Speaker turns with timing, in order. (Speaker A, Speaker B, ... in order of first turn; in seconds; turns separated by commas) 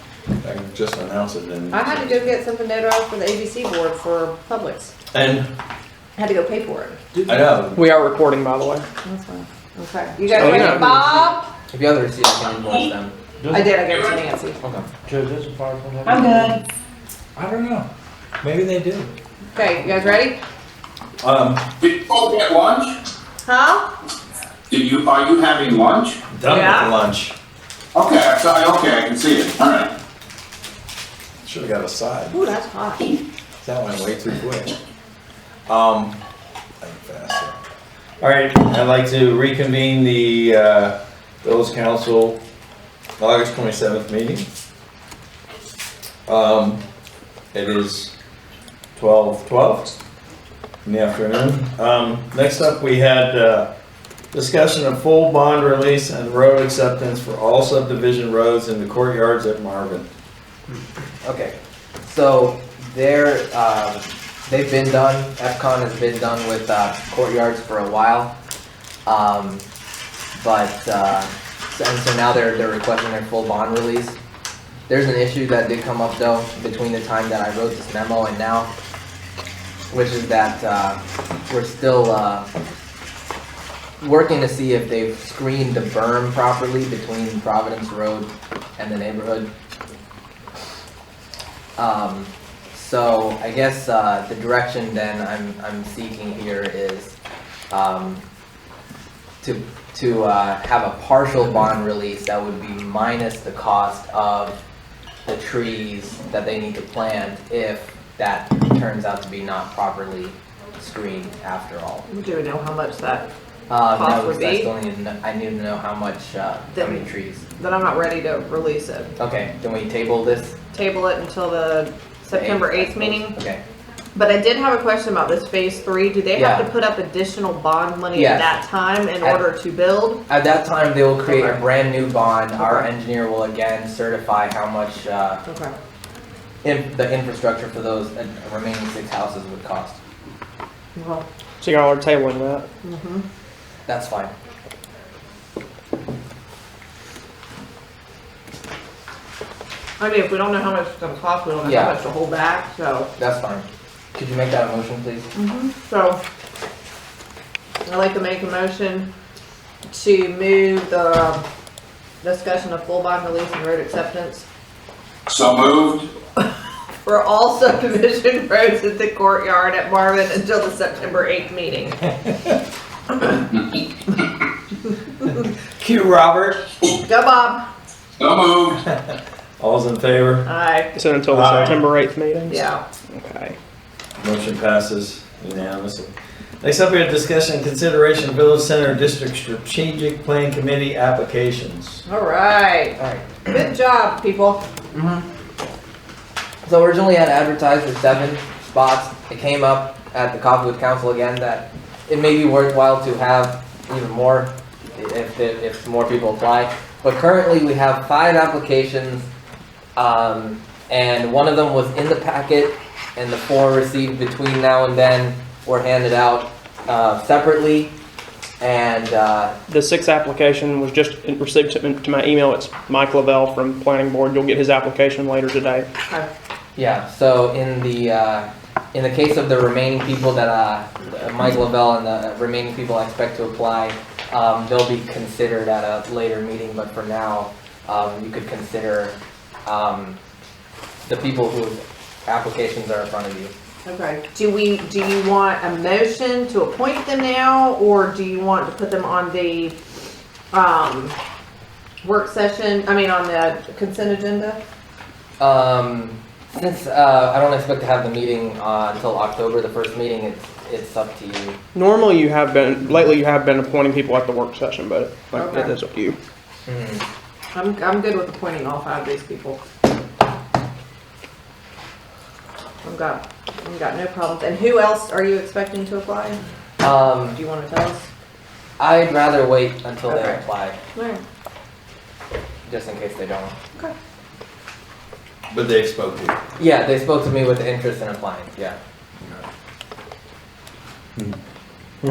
Speaker A: 0.4-2.3, Speaker B: 1.7-4.9, Speaker A: 5.1-5.5, Speaker B: 6.2-7.0, Speaker A: 7.3-7.8, Speaker C: 7.7-8.8, Speaker B: 9.0-11.5, Speaker C: 10.3-11.0, Speaker D: 10.4-11.1, Speaker E: 11.7-13.2, Speaker D: 13.4-13.7, Speaker B: 13.5-14.6, Speaker E: 14.6-14.9, Speaker D: 15.1-16.6, Speaker B: 16.1-16.6, Speaker A: 17.4-17.9, Speaker A: 18.4-19.1, Speaker B: 19.5-20.4, Speaker A: 21.2-21.7, Speaker F: 21.8-23.0, Speaker B: 23.4-23.9, Speaker F: 24.7-26.2, Speaker A: 26.3-27.4, Speaker B: 26.4-26.9, Speaker F: 27.9-29.9, Speaker A: 31.4-32.4, Speaker B: 32.3-33.2, Speaker A: 33.6-34.8, Speaker A: 35.7-36.2, Speaker A: 36.8-37.6, Speaker A: 38.2-42.4, Speaker A: 43.2-44.5, Speaker A: 46.3-46.8, Speaker A: 47.5-48.1, Speaker A: 49.0-50.0, Speaker A: 50.9-53.7, Speaker A: 54.3-60.1, Speaker E: 60.7-68.3, Speaker E: 69.1-69.6, Speaker E: 70.3-74.2, Speaker E: 74.9-78.7, Speaker E: 79.9-82.5, Speaker E: 84.0-89.5, Speaker E: 91.8-97.2, Speaker E: 97.7-98.2, Speaker E: 99.4-104.6, Speaker E: 105.3-112.1, Speaker B: 112.1-113.3, Speaker E: 113.7-117.5, Speaker B: 113.9-114.7, Speaker B: 116.8-117.1, Speaker B: 117.6-119.1, Speaker E: 119.2-120.6, Speaker B: 120.7-123.3, Speaker E: 122.3-123.6, Speaker B: 124.2-130.2, Speaker E: 126.3-126.7, Speaker E: 128.1-128.6, Speaker E: 130.3-135.4, Speaker B: 131.3-131.6, Speaker B: 132.6-132.9, Speaker B: 135.5-135.7, Speaker E: 136.6-140.0, Speaker B: 141.0-141.2, Speaker C: 141.6-142.7, Speaker B: 142.8-143.2, Speaker E: 143.9-144.3, Speaker B: 150.0-153.1, Speaker E: 151.6-152.0, Speaker E: 153.2-155.3, Speaker B: 155.3-156.2, Speaker B: 157.9-159.1, Speaker B: 159.9-161.4, Speaker B: 162.2-164.4, Speaker F: 165.3-166.1, Speaker B: 167.1-172.1, Speaker A: 175.8-176.6, Speaker B: 177.1-177.7, Speaker F: 178.2-178.8, Speaker A: 179.6-180.5, Speaker B: 180.4-181.0, Speaker C: 180.9-183.6, Speaker A: 181.3-181.8, Speaker B: 182.5-182.8, Speaker A: 184.2-192.1, Speaker B: 192.1-194.6, Speaker E: 193.0-193.4, Speaker E: 196.7-209.3, Speaker E: 210.0-217.9, Speaker E: 218.6-219.6, Speaker C: 219.7-225.9, Speaker E: 226.8-240.2, Speaker E: 241.1-243.5, Speaker B: 243.9-249.8, Speaker B: 250.5-251.2, Speaker B: 252.0-254.6, Speaker E: 255.4-261.6, Speaker C: 261.7-266.2, Speaker B: 265.4-265.8, Speaker E: 266.7-267.0, Speaker B: 267.5-269.6, Speaker B: 272.8-276.4, Speaker E: 276.8-277.4, Speaker B: 277.4-278.1, Speaker E: 278.8-280.8, Speaker B: 280.1-280.4, Speaker B: 280.9-281.2, Speaker E: 282.7-283.6, Speaker A: 285.5-286.4, Speaker E: 286.6-288.8